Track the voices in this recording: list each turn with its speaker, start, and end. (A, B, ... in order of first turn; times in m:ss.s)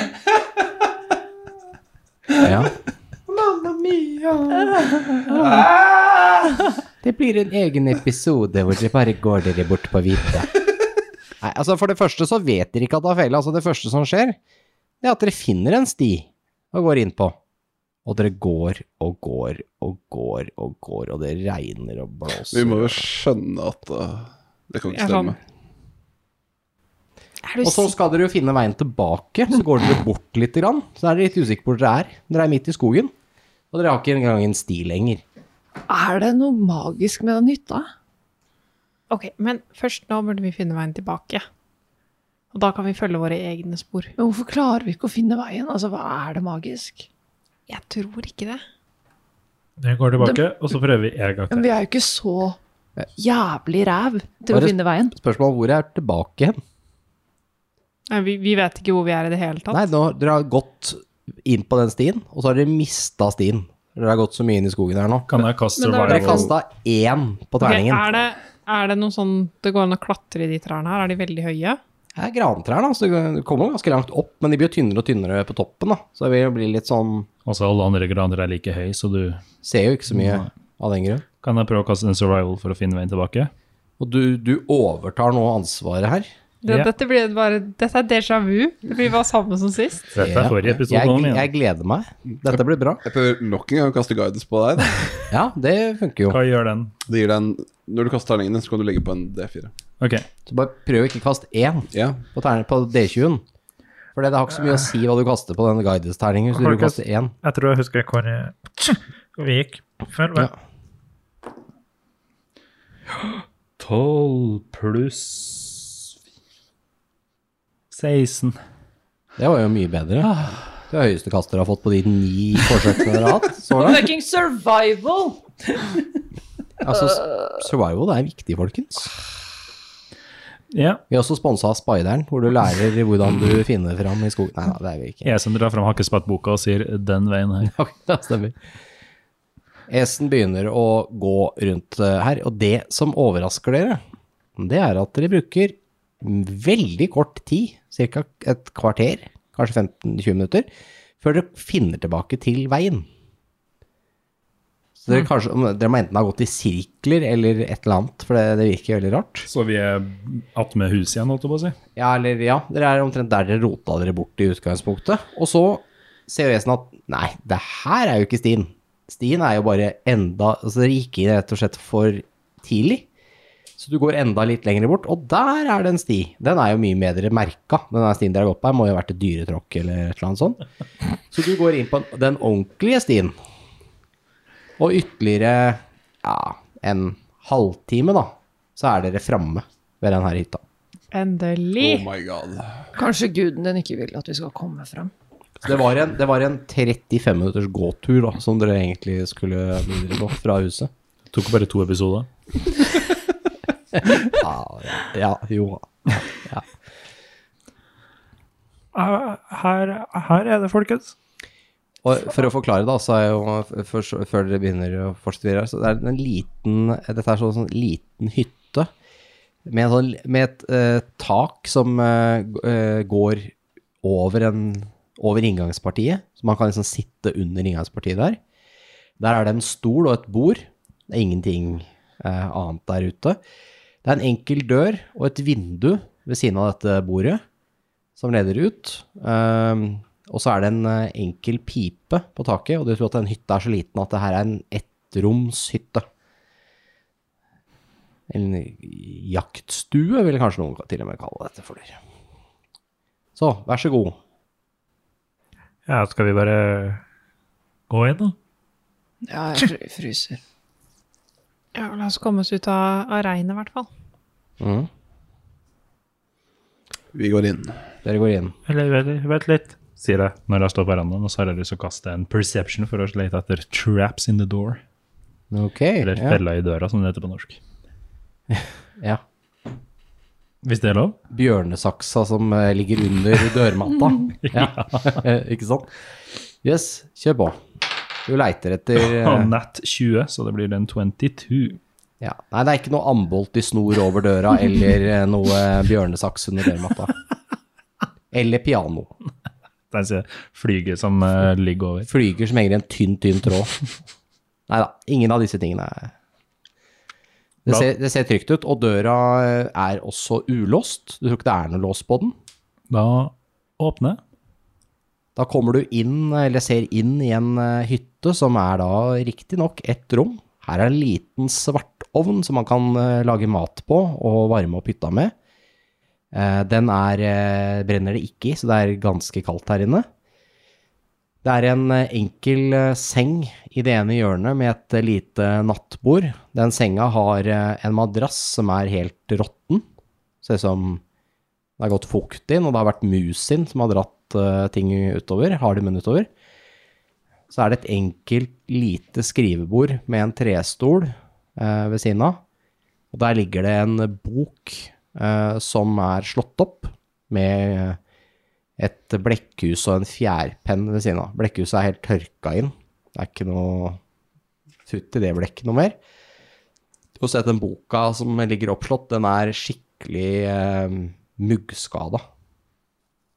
0:02.4-0:02.7 A
0:07.0-0:10.5 A
0:11.4-0:14.4 A
0:15.0-0:17.4 A
0:18.0-0:23.0 A
0:22.5-0:25.4 B
0:24.9-0:25.4 C
0:27.4-0:27.9 C
0:27.6-0:33.1 A
0:33.7-0:35.2 A
0:35.9-0:37.9 D
0:39.1-0:41.4 C
0:42.5-0:44.1 C
0:44.2-0:47.1 D
0:47.7-0:48.6 C
0:49.8-0:51.7 E
0:50.2-0:50.8 D
0:51.5-0:52.6 D
0:53.2-0:55.1 D
0:54.5-0:56.6 A
0:58.1-0:59.8 C
0:59.7-1:05.3 A
1:05.3-1:06.5 F
1:05.8-1:06.5 C
1:06.0-1:08.1 A
1:07.6-1:11.8 C
1:12.2-1:17.3 A
1:17.4-1:19.4 F
1:19.6-1:21.2 A
1:20.1-1:20.5 F
1:21.4-1:23.5 F
1:24.0-1:26.3 A
1:26.6-1:30.1 C
1:30.1-1:31.5 F
1:30.2-1:33.0 A
1:33.0-1:35.3 B
1:35.3-1:36.4 A
1:36.3-1:36.9 F
1:37.1-1:39.7 B
1:40.0-1:40.3 F
1:40.5-1:43.4 A
1:41.9-1:42.2 B
1:44.2-1:47.3 A
1:46.6-1:50.5 E
1:53.8-1:56.1 F
1:57.9-1:58.6 F
1:59.4-2:04.0 A
2:00.3-2:00.6 F
2:03.7-2:06.0 D
2:06.8-2:09.1 A
2:07.1-2:07.5 D
2:10.7-2:11.0 F
2:11.1-2:15.3 A
2:15.2-2:17.7 F
2:17.6-2:18.6 A
2:19.9-2:24.0 A
2:24.6-2:30.7 A
2:31.2-2:33.1 A
2:35.0-2:39.5 A
2:39.5-2:41.8 F
2:42.0-2:53.1 A
2:53.8-3:00.6 A
3:01.3-3:03.4 A
3:04.8-3:10.6 A
3:11.1-3:12.1 C
3:11.8-3:12.9 B
3:13.0-3:15.1 D
3:15.6-3:20.9 A
3:21.3-3:22.3 F
3:24.3-3:26.7 A
3:28.9-3:31.2 E
3:32.0-3:38.9 A
3:39.7-3:43.5 A
3:44.0-3:48.4 A
3:49.2-3:53.4 A
3:54.0-3:57.4 A
3:58.2-4:06.0 A
4:08.3-4:12.0 A
4:13.4-4:14.2 A
4:15.9-4:17.0 E
4:17.9-4:18.4 E
4:19.2-4:20.4 D
4:21.8-4:23.9 C
4:24.6-4:24.9 A
4:27.1-4:27.8 B
4:28.0-4:28.6 A
4:28.7-4:29.8 E
4:29.9-4:34.8 F
4:35.5-4:36.4 A
4:36.0-4:37.6 F
4:38.6-4:39.2 A
4:40.6-4:41.2 F
4:41.3-4:45.9 A
4:44.4-4:45.2 F
4:46.6-4:47.6 A
4:48.2-4:49.5 A
4:49.0-4:51.8 F
4:52.2-4:57.1 A
4:58.3-4:59.1 A
4:59.9-5:02.1 F
5:02.1-5:03.8 A
5:04.7-5:06.1 A
5:07.6-5:12.3 A
5:12.9-5:14.2 F
5:15.4-5:25.3 A
5:26.3-5:30.1 A
5:31.4-5:39.8 A
5:40.4-5:41.0 A
5:41.8-5:46.3 A
5:47.5-5:52.4 A
5:53.1-5:58.0 A
5:58.8-6:04.0 A
6:04.9-6:06.0 A
6:07.2-6:12.2 A